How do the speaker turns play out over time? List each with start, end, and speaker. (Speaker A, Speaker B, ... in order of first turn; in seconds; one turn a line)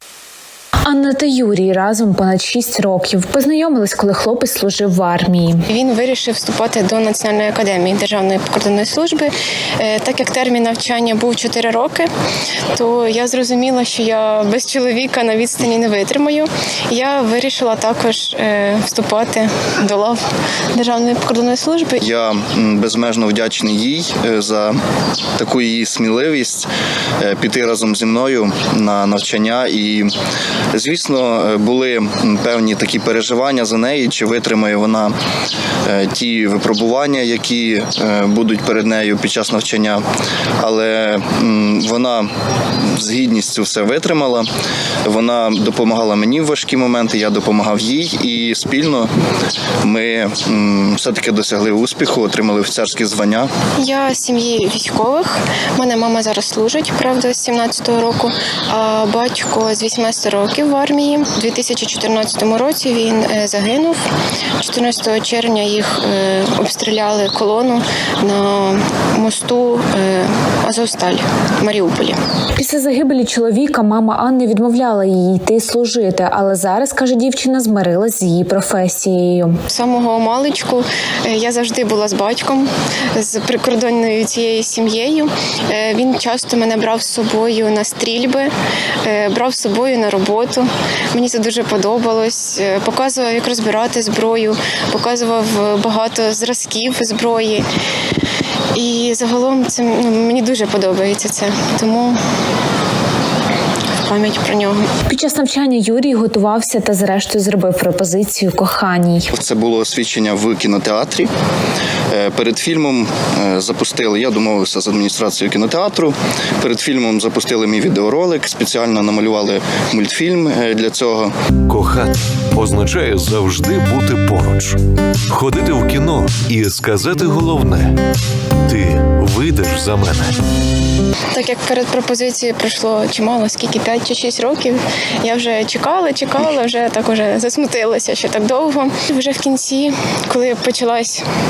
Speaker A: 0.8-5.6
Speaker B: 5.7-12.1
Speaker B: 12.7-20.2
Speaker B: 20.7-22.0
Speaker C: 22.0-24.8
Speaker C: 25.4-30.1
Speaker C: 30.7-35.1
Speaker C: 35.8-40.0
Speaker C: 40.6-42.3
Speaker C: 42.8-44.5
Speaker C: 45.0-49.1
Speaker C: 49.8-53.5
Speaker B: 53.8-64.0
Speaker B: 64.6-72.2
Speaker A: 72.5-79.6
Speaker B: 79.7-88.5
Speaker B: 89.0-97.7
Speaker B: 98.7-102.2
Speaker B: 104.0-104.8
Speaker A: 105.1-109.3
Speaker C: 109.3-111.3
Speaker C: 112.1-121.3
Speaker D: 121.7-128.0
Speaker D: 128.6-130.4
Speaker B: 131.3-141.2